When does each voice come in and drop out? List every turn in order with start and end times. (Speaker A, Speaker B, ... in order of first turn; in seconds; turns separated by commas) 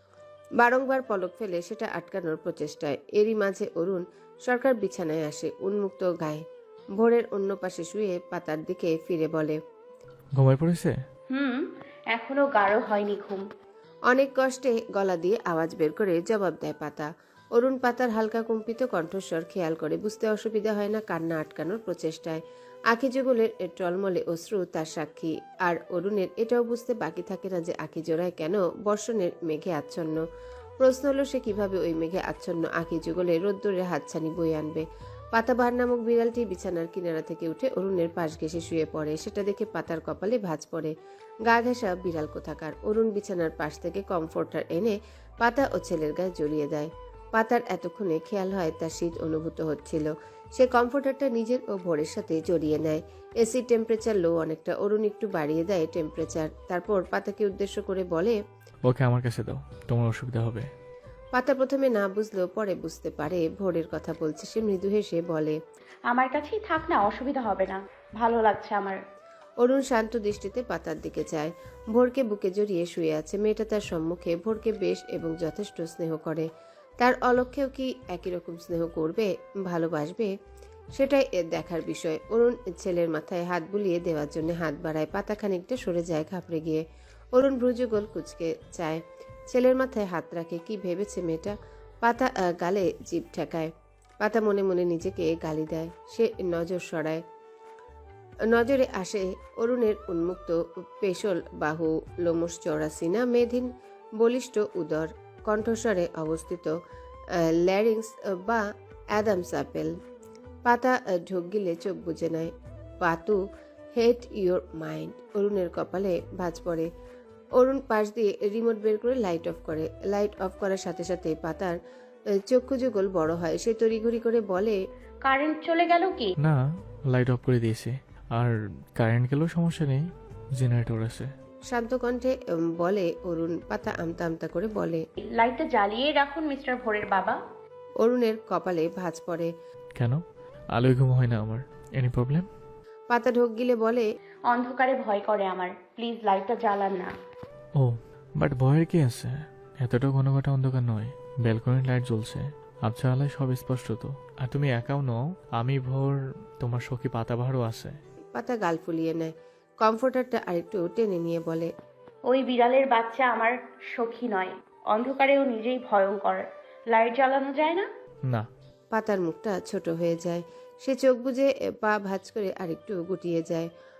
Speaker A: 0.6-6.4, Speaker A: 7.0-9.6, Speaker B: 10.4-10.9, Speaker C: 11.3-13.4, Speaker A: 14.1-30.2, Speaker A: 30.8-34.8, Speaker A: 35.3-40.9, Speaker A: 41.5-58.4, Speaker B: 58.8-60.7, Speaker A: 61.3-65.5, Speaker C: 66.1-69.0, Speaker A: 69.6-76.5, Speaker A: 77.0-80.3, Speaker A: 81.0-86.8, Speaker A: 87.3-97.2, Speaker A: 98.5-106.7, Speaker A: 107.4-108.6, Speaker A: 109.1-109.9, Speaker A: 110.7-113.4, Speaker A: 114.0-116.9, Speaker A: 117.6-121.8, Speaker A: 122.5-124.8, Speaker C: 125.2-126.3, Speaker B: 127.1-130.0, Speaker B: 130.6-131.3, Speaker A: 131.7-135.0, Speaker C: 135.2-137.4, Speaker A: 138.0-139.5, Speaker B: 140.7-142.5, Speaker A: 143.1-144.1, Speaker C: 144.5-147.1, Speaker B: 147.8-157.9, Speaker A: 158.3-161.7, Speaker C: 162.3-167.9, Speaker A: 168.9-173.7